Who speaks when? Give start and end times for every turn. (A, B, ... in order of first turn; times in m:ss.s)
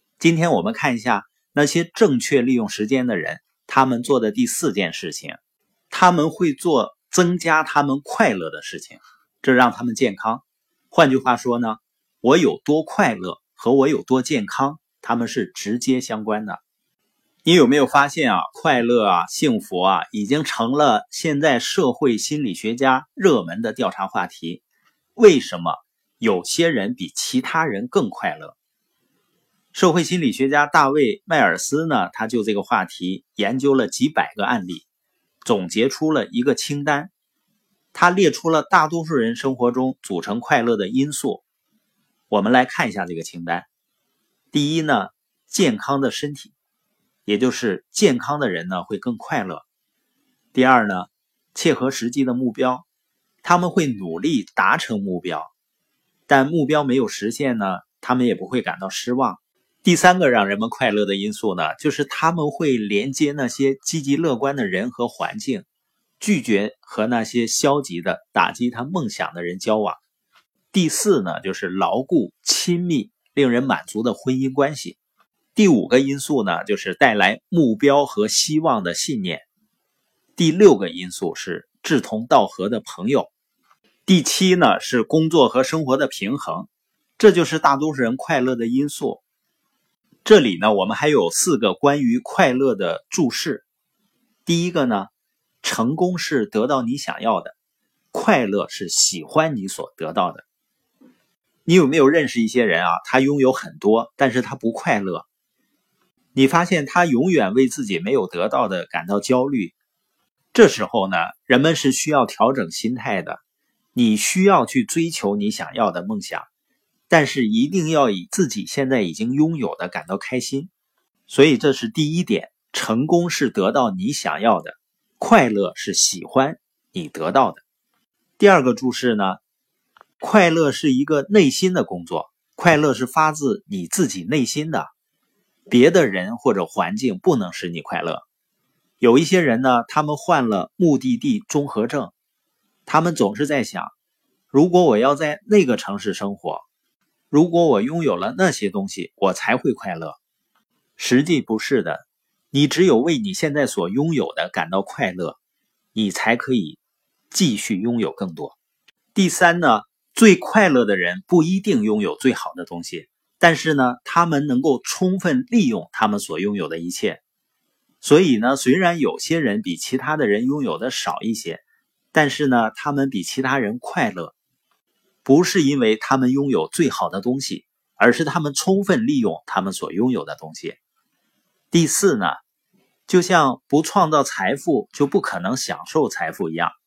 0:00.2-0:05.4 A
0:05.9-0:16.6 A
0:17.4-0:24.6 A
0:25.2-0:28.6 A
0:29.7-0:34.8 A
0:35.4-0:37.1 A
0:37.9-0:41.4 A
0:42.3-0:43.6 A
0:44.5-0:46.5 A
0:47.2-0:49.6 A
0:50.5-0:52.8 A
0:53.4-0:55.5 A
0:56.3-1:05.6 A
1:06.2-1:10.0 A
1:10.7-1:15.0 A
1:15.5-1:19.4 A
1:20.4-1:23.3 A
1:24.0-1:29.2 A
1:30.2-1:33.6 A
1:34.4-1:35.1 A
1:35.6-1:37.5 A
1:38.1-1:40.4 A
1:41.6-1:45.2 A
1:46.3-1:49.8 A
1:50.5-1:53.4 A
1:53.9-1:56.5 A
1:57.1-2:00.7 A
2:01.3-2:07.6 A
2:08.4-2:09.4 A
2:10.2-2:14.9 A
2:15.7-2:18.2 A
2:19.0-2:22.1 A
2:22.8-2:23.9 A
2:24.5-2:26.6 A
2:27.3-2:30.2 A
2:31.0-2:35.4 A
2:35.9-2:36.8 A
2:37.3-2:38.6 A
2:39.1-2:47.2 A
2:48.0-2:54.3 A
2:55.2-3:00.8 A
3:01.7-3:02.4 A
3:03.1-3:06.7 A